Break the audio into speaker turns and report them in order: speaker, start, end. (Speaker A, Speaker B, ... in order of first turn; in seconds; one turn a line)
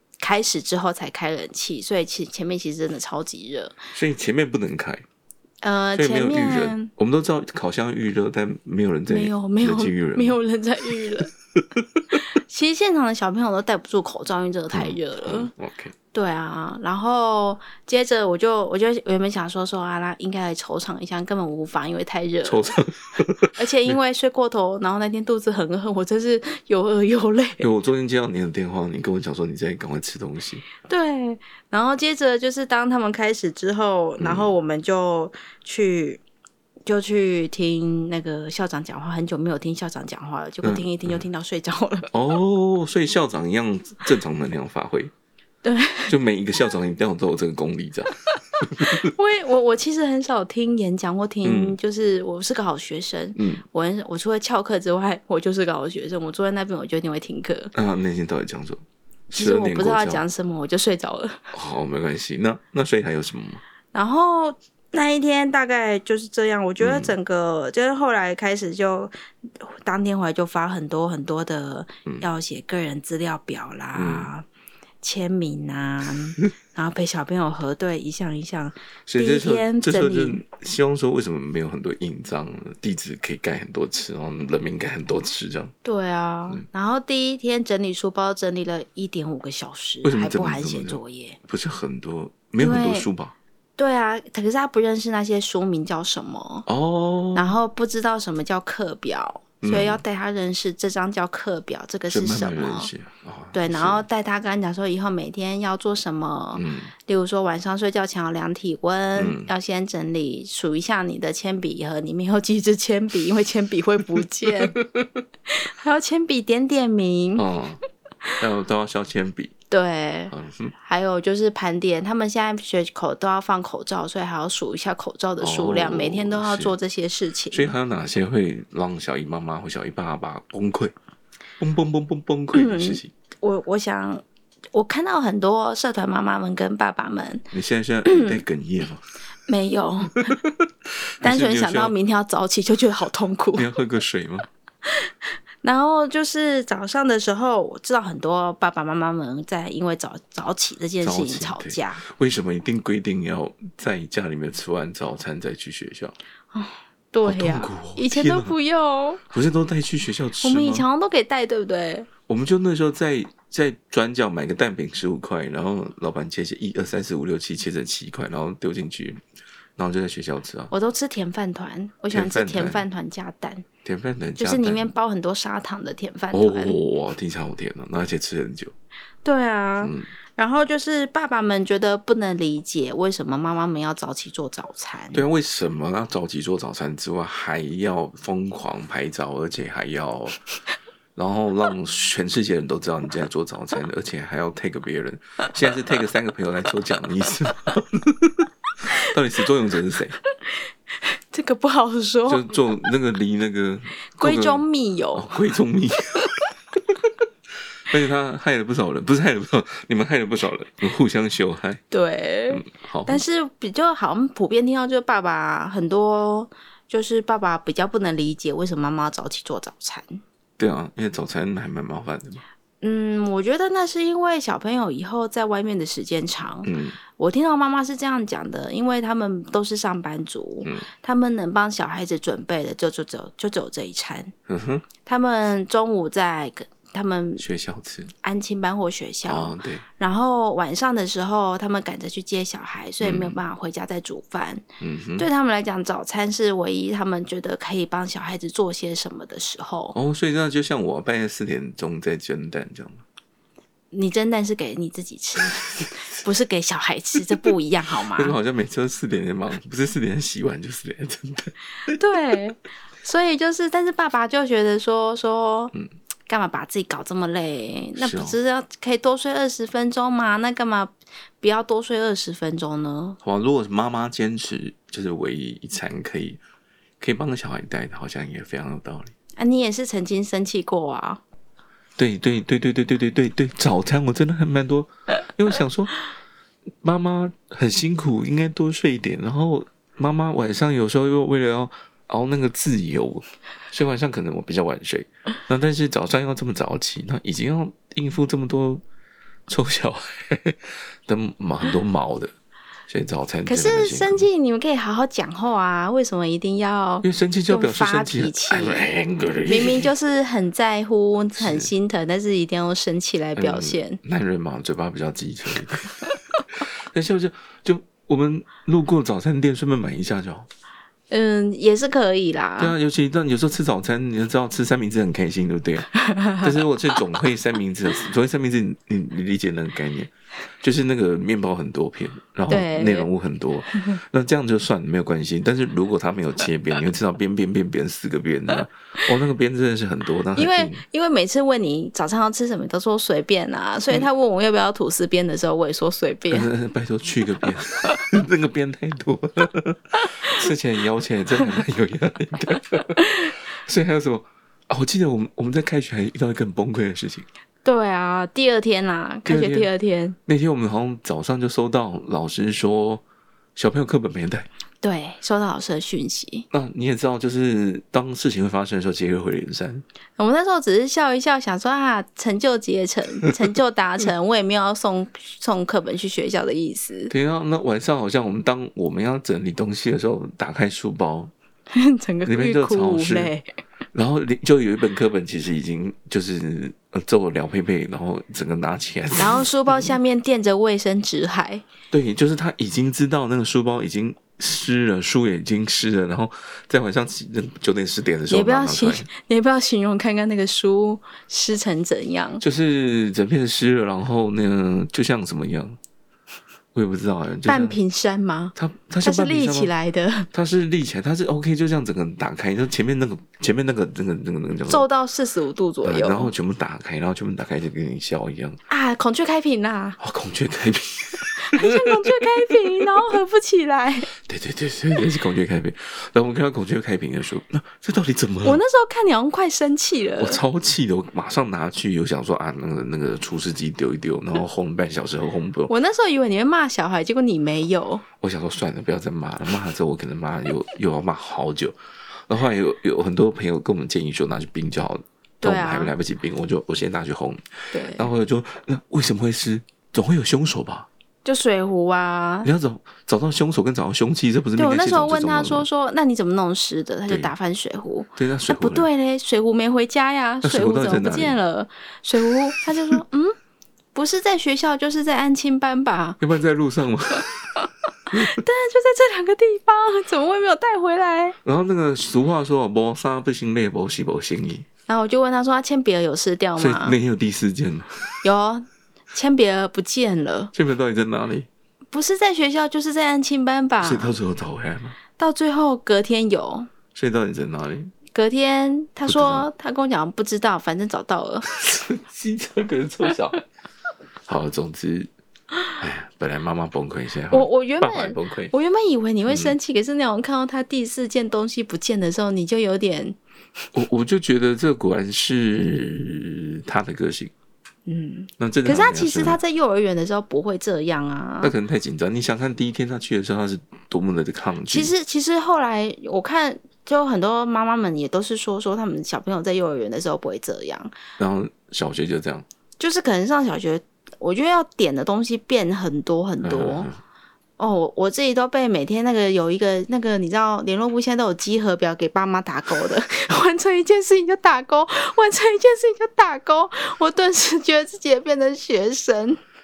Speaker A: 0.2-3.8
Speaker B: 3.9-5.0
Speaker A: 5.6-6.9
Speaker B: 5.9-10.4
Speaker A: 9.1-11.3
Speaker A: 12.1-15.5
Speaker B: 14.7-15.9
Speaker A: 16.1-22.8
Speaker B: 22.4-24.0
Speaker A: 23.5-27.7
Speaker B: 27.6-30.6
Speaker A: 30.8-36.2
Speaker B: 34.2-34.5
Speaker A: 36.9-42.1
Speaker B: 40.6-41.2
Speaker B: 42.1-45.1
Speaker A: 45.6-46.1
Speaker B: 46.1-49.1
Speaker A: 49.0-57.7
Speaker B: 51.4-51.8
Speaker B: 53.4-53.6
Speaker B: 57.7-60.2
Speaker A: 59.3-61.5
Speaker B: 61.5-63.6
Speaker A: 63.9-74.5
Speaker B: 66.8-67.1
Speaker B: 73.9-74.3
Speaker A: 75.0-80.4
Speaker B: 79.1-85.7
Speaker A: 85.8-91.4
Speaker B: 90.0-93.3
Speaker A: 92.6-93.1
Speaker A: 93.8-96.7
Speaker B: 96.7-97.5
Speaker A: 97.3-102.9
Speaker B: 99.6-100.0
Speaker B: 102.1-104.0
Speaker A: 103.5-114.8
Speaker B: 106.5-106.9
Speaker B: 109.2-109.5
Speaker B: 114.7-115.0
Speaker A: 115.6-117.5
Speaker B: 117.3-117.8
Speaker B: 118.4-119.5
Speaker A: 119.7-120.3
Speaker B: 120.3-120.7
Speaker A: 120.8-127.7
Speaker B: 125.4-126.8
Speaker B: 127.5-130.9
Speaker B: 131.6-133.1
Speaker A: 132.5-137.5
Speaker B: 137.5-139.1
Speaker A: 138.1-138.4
Speaker A: 139.5-140.2
Speaker B: 140.2-140.6
Speaker B: 141.2-141.9
Speaker A: 141.2-143.7
Speaker B: 143.5-144.5
Speaker A: 145.6-152.0
Speaker B: 151.0-156.1
Speaker A: 156.5-159.2
Speaker B: 157.2-158.5
Speaker B: 159.3-160.8
Speaker A: 160.4-162.1
Speaker B: 162.3-169.2
Speaker B: 169.8-170.7
Speaker A: 170.7-173.6
Speaker B: 172.1-172.8
Speaker B: 173.8-174.9
Speaker A: 174.4-176.8
Speaker B: 176.3-178.7
Speaker A: 179.2-185.2
Speaker B: 179.8-180.1
Speaker B: 185.1-190.4
Speaker B: 191.2-200.2
Speaker A: 201.0-202.7
Speaker B: 202.3-204.6
Speaker A: 204.2-205.5
Speaker B: 205.1-206.2
Speaker B: 207.9-211.8
Speaker A: 211.9-220.2
Speaker B: 212.5-213.2
Speaker B: 220.6-222.4
Speaker A: 222.8-234.3
Speaker B: 226.6-227.0
Speaker B: 234.5-234.8
Speaker A: 235.1-237.4
Speaker B: 237.4-238.1
Speaker A: 238.2-244.6
Speaker B: 239.2-239.8
Speaker B: 243.0-243.4
Speaker B: 244.8-245.3
Speaker A: 245.2-249.9
Speaker B: 249.9-253.0
Speaker A: 253.9-258.4
Speaker B: 258.0-262.0
Speaker A: 261.9-265.7
Speaker A: 266.3-273.2
Speaker B: 268.0-268.4
Speaker B: 273.2-276.4
Speaker B: 277.0-279.1
Speaker A: 279.4-281.2
Speaker B: 282.0-286.0
Speaker B: 286.8-298.8
Speaker B: 299.5-302.3
Speaker B: 302.9-304.3
Speaker A: 303.4-308.9
Speaker B: 307.0-309.9
Speaker A: 309.5-314.0
Speaker B: 311.4-311.7
Speaker B: 313.4-320.5
Speaker A: 321.1-322.7
Speaker B: 322.6-340.8
Speaker A: 326.1-326.5
Speaker A: 332.5-333.1
Speaker A: 340.4-346.5
Speaker B: 346.3-357.3
Speaker A: 357.6-360.2
Speaker B: 359.2-359.7
Speaker B: 360.3-363.0
Speaker B: 363.6-364.4
Speaker A: 364.8-366.5
Speaker B: 366.5-369.8
Speaker A: 370.2-377.1
Speaker B: 377.1-381.3
Speaker A: 381.7-383.5
Speaker B: 382.2-383.3
Speaker B: 383.9-389.9
Speaker A: 389.1-391.6
Speaker B: 391.9-399.1
Speaker A: 398.3-402.4
Speaker B: 402.4-405.8
Speaker B: 406.7-407.8
Speaker A: 407.4-410.3
Speaker B: 408.5-409.7
Speaker B: 410.3-414.8
Speaker A: 414.7-416.3
Speaker B: 415.8-418.6
Speaker A: 418.7-420.0
Speaker B: 420.0-422.2
Speaker A: 421.3-424.1
Speaker B: 424.2-428.6
Speaker A: 428.4-430.4
Speaker B: 430.2-435.7
Speaker A: 435.7-438.0
Speaker B: 438.2-441.8
Speaker B: 442.3-450.9
Speaker A: 445.4-445.9
Speaker A: 447.7-448.1
Speaker A: 451.2-452.5
Speaker B: 452.4-455.6
Speaker A: 454.6-463.4
Speaker B: 458.2-458.9
Speaker B: 460.4-461.4
Speaker A: 463.9-466.2
Speaker B: 466.2-467.4
Speaker A: 467.6-471.4
Speaker B: 471.4-474.6
Speaker A: 474.9-477.0
Speaker B: 476.6-478.2
Speaker A: 478.2-480.5
Speaker B: 480.5-481.5
Speaker A: 481.9-484.1
Speaker B: 483.8-484.9
Speaker A: 485.2-486.7
Speaker B: 486.9-487.9
Speaker A: 488.1-491.4
Speaker B: 489.1-489.5
Speaker B: 491.5-493.4
Speaker B: 494.3-495.1
Speaker B: 495.8-498.5
Speaker A: 497.3-503.2
Speaker B: 499.3-499.5
Speaker B: 503.7-507.3
Speaker A: 507.9-511.5
Speaker B: 508.4-509.4
Speaker B: 511.4-514.9
Speaker A: 514.7-520.9
Speaker B: 521.2-522.5
Speaker A: 522.8-526.9
Speaker B: 526.4-527.0
Speaker A: 527.6-539.4